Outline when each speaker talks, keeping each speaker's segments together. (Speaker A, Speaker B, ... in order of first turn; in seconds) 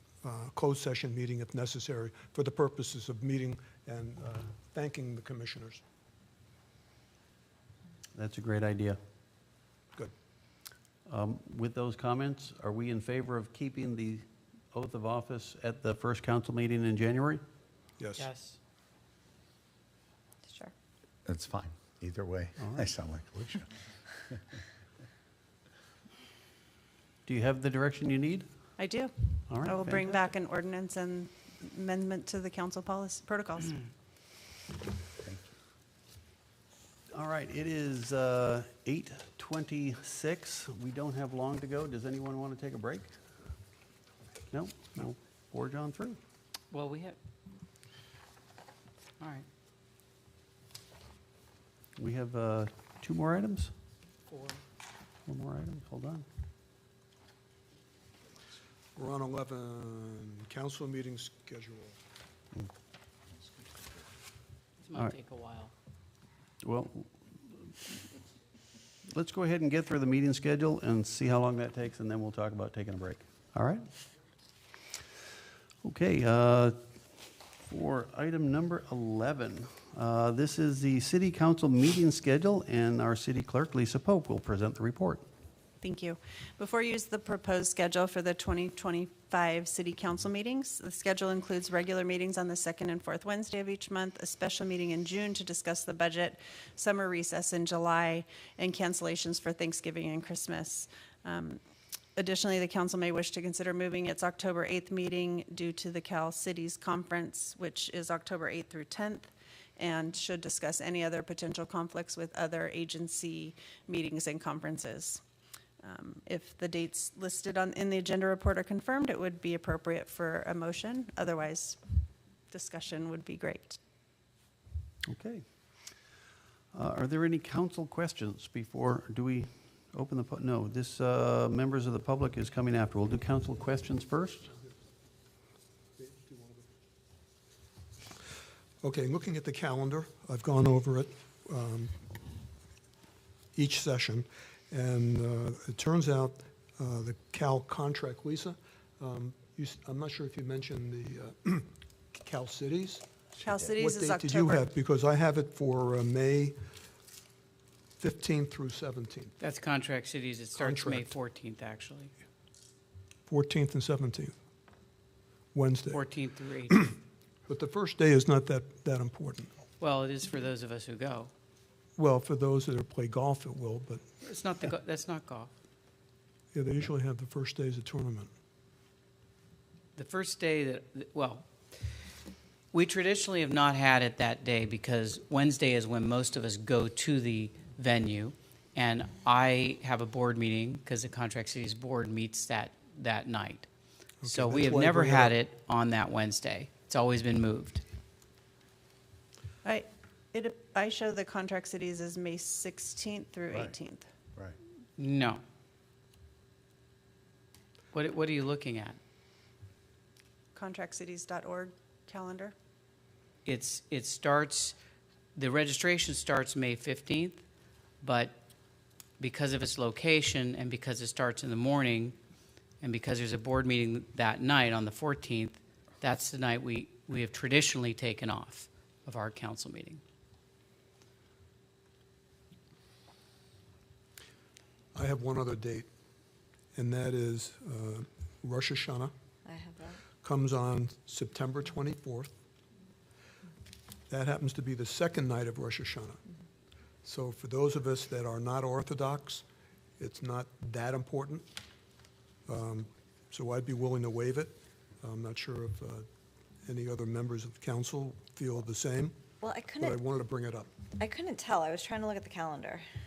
Speaker A: 0.2-5.8, 18.0-18.3, 59.0-62.0, 136.0-136.6, 138.8-141.9, 143.6-153.0, 153.8-156.6, 158.0-159.3, 160.6-161.1, 163.3-164.3, 165.5-166.0, 167.5-169.5, 172.0-174.1, 176.5-178.3, 194.2-195.3, 234.9-235.9, 236.8-239.1, 240.2-242.3, 244.1-246.2, 247.0-249.4, 250.0-251.4, 252.5-256.1, 256.7-259.2, 259.8-260.7
Speaker B: 8.2-9.0, 11.1-17.4, 27.2-28.5, 29.5-30.1, 37.1-43.1, 44.5-46.2, 52.0-53.7, 55.3-56.3, 66.6-67.7, 69.1-73.9, 75.8-85.3, 125.1-125.5, 126.7-134.5
Speaker C: 18.2-18.6, 46.7-47.2, 49.2-49.5, 54.3-54.6, 64.8-65.7, 159.4-162.1, 165.9-166.9, 169.8-171.3, 174.2-175.5, 180.0-181.5, 182.7-193.7, 194.2-197.8, 205.0-205.4, 207.9-209.0, 213.4-214.8, 215.3-217.4, 218.0-218.3, 219.2-222.2, 222.8-230.0
Speaker D: 21.3-23.8
Speaker E: 28.8-33.9, 85.8-101.6, 102.2-115.2, 115.8-123.8, 153.4-154.7, 199.6-204.1, 210.5-212.6
Speaker F: 239.5-240.0, 259.4-260.0, 261.0-262.9